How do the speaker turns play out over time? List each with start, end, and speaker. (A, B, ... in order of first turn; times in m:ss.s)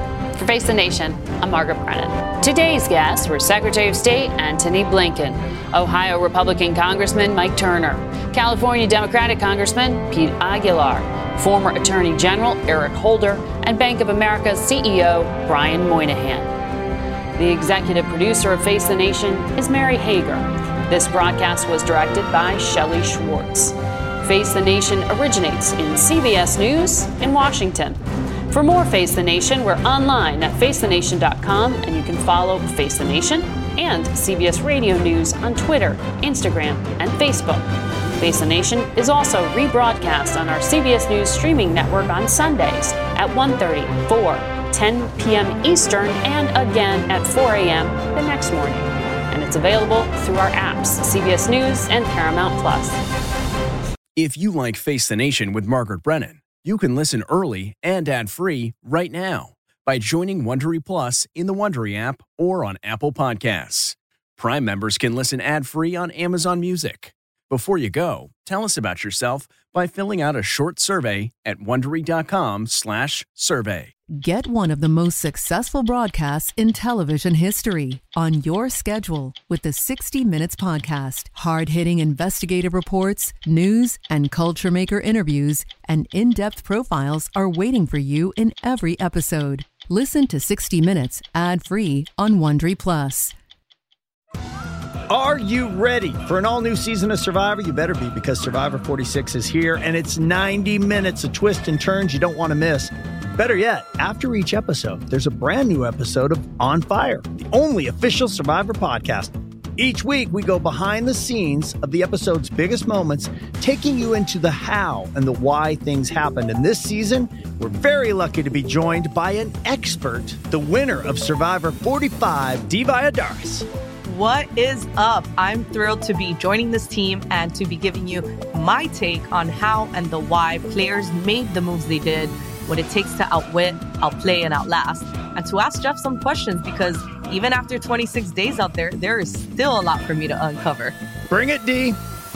0:00.4-0:16.5 A
0:17.4-0:28.0 A
0:28.5-0:53.0 A
0:54.2-1:13.9 B
1:14.1-1:33.3 C
1:35.1-2:03.6 D
2:04.0-2:20.9 E
2:21.3-2:22.0 D